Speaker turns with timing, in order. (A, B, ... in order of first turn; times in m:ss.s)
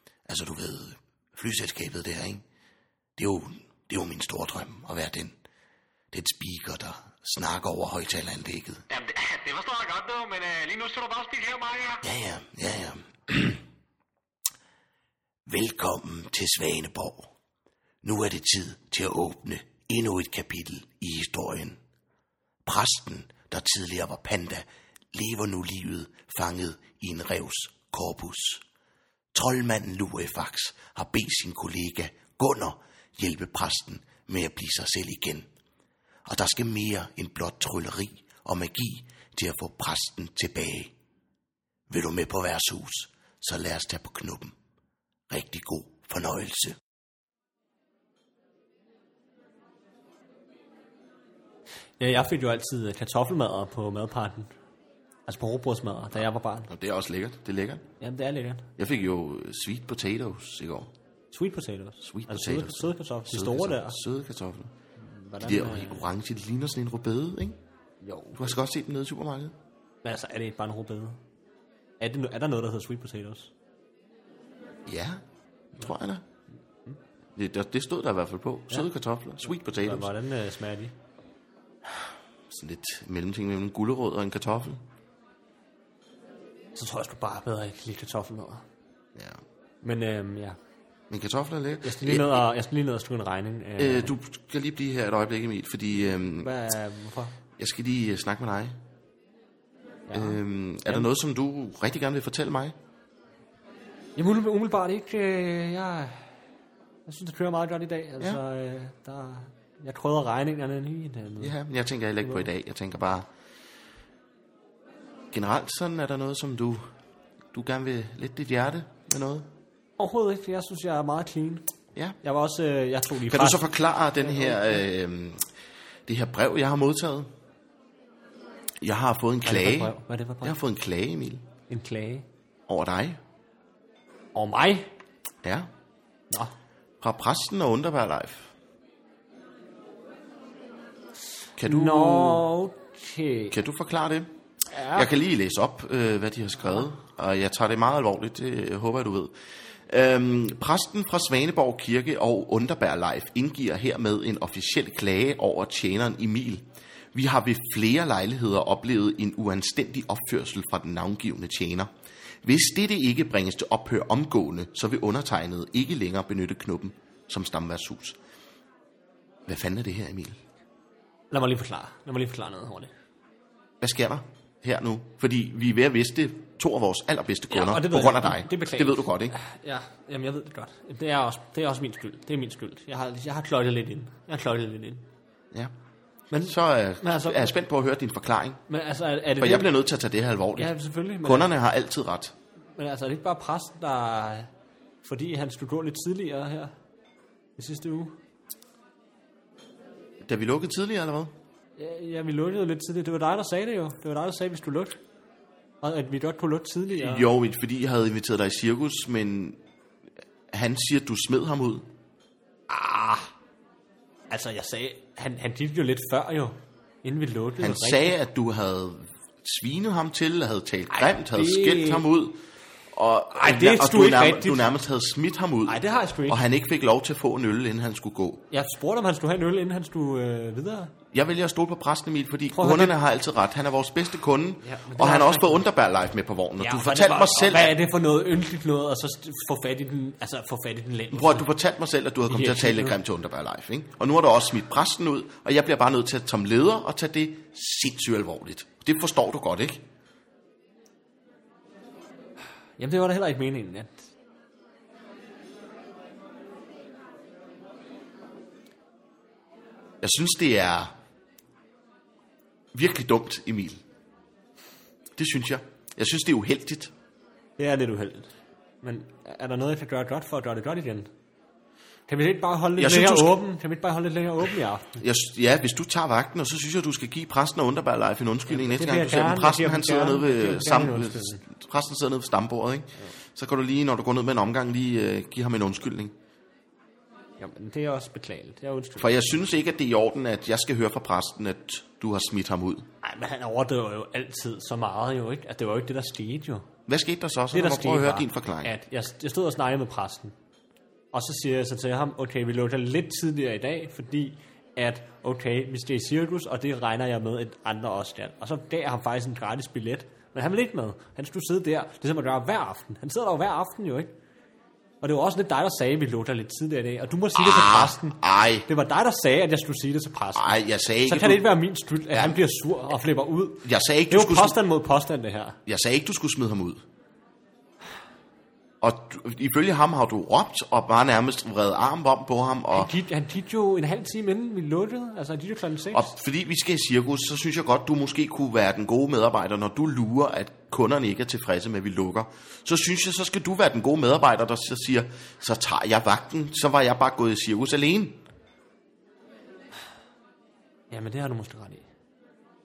0:00.3-0:02.4 A
0:03.2-0:05.4 A
0:06.1-0:08.8 A
0:08.9-0:12.0 B
0:12.0-0:13.6 A
0:15.5-0:17.3 A
0:18.0-0:21.8 A
0:22.6-0:28.6 A
0:29.3-0:35.5 A
0:36.2-0:40.9 A
0:41.9-0:44.5 A
0:45.3-0:46.8 A
0:52.0-0:54.5 C
0:55.3-0:56.7 C
0:56.7-0:57.8 A
0:58.0-0:58.7 C
0:58.8-1:00.9 A
1:01.3-1:04.0 C
1:02.0-1:04.7 A
1:05.0-1:06.0 C
1:05.4-1:07.6 A
1:08.0-1:08.6 C
1:08.4-1:09.5 A
1:10.0-1:11.2 C
1:12.0-1:13.5 C
1:14.8-1:15.2 A
1:15.7-1:16.2 A
1:17.4-1:20.1 A
1:19.4-1:20.9 C
1:22.5-1:24.8 A
1:26.7-1:28.6 C
1:29.8-1:30.6 C
1:31.1-1:32.4 A
1:31.8-1:34.1 C
1:33.8-1:36.5 A
1:36.4-1:37.3 C
1:37.6-1:38.8 A
1:40.1-1:41.1 C
1:40.1-1:42.7 A
1:44.2-1:46.3 C
1:47.0-1:51.5 C
1:51.4-1:53.3 A
1:55.3-1:56.8 A
1:57.5-1:59.5 A
2:00.0-2:01.6 C
2:02.2-2:03.7 C
2:03.3-2:05.4 A
2:04.2-2:04.8 C
2:06.1-2:07.3 A
2:08.8-2:11.4 A
2:09.4-2:10.5 C
2:11.7-2:12.2 C
2:12.7-2:13.2 A
2:14.3-2:14.9 C
2:17.0-2:18.5 A
2:21.6-2:22.4 A
2:21.6-2:23.5 C
2:23.5-2:24.3 A
2:24.7-2:25.1 C
2:24.9-2:29.3 A
2:29.9-2:41.9 A
2:42.4-2:48.2 A
2:49.5-2:50.4 A
2:51.3-2:52.9 C
2:53.8-2:59.4 A
2:57.5-3:05.0 C
3:06.3-3:07.5 C
3:06.4-3:08.6 A
3:08.7-3:09.7 C
3:09.4-3:12.3 A
3:10.6-3:11.5 C
3:12.8-3:14.5 C
3:15.0-3:16.7 C
3:17.6-3:18.1 C
3:20.2-3:21.3 A
3:21.8-3:25.0 C
3:25.8-3:27.3 C
3:26.9-3:29.6 A
3:30.5-3:31.8 A
3:32.7-3:33.3 C
3:34.3-3:38.2 C
3:37.6-3:42.4 A
3:40.9-3:42.0 C
3:42.9-3:48.4 A
3:43.3-3:44.7 C
3:45.7-3:46.4 C
3:48.5-3:50.9 C
3:51.1-3:57.8 A
3:52.5-3:53.0 C
3:54.6-3:55.6 C
3:56.6-4:01.5 C
4:01.1-4:09.8 A
4:02.3-4:02.9 C
4:12.8-4:14.0 C
4:20.0-4:20.9 A
4:22.7-4:23.8 A
4:25.2-4:26.9 A
4:27.6-4:31.1 C
4:32.1-4:35.0 C
4:32.8-4:33.4 A
4:35.0-4:46.1 A
4:38.5-4:41.4 C
4:47.4-4:49.2 C
4:49.0-4:52.9 A
4:53.0-4:56.6 C
4:56.9-4:58.7 A
4:57.5-5:00.3 C
5:01.1-5:14.1 C
5:15.0-5:25.6 C
5:17.4-5:18.6 A
5:20.3-5:21.4 A
5:22.1-5:22.4 A
5:23.6-5:24.6 A
5:25.6-5:26.8 A
5:28.8-5:32.9 A
5:32.7-5:36.1 C
5:35.9-5:48.2 A
5:50.9-5:51.8 C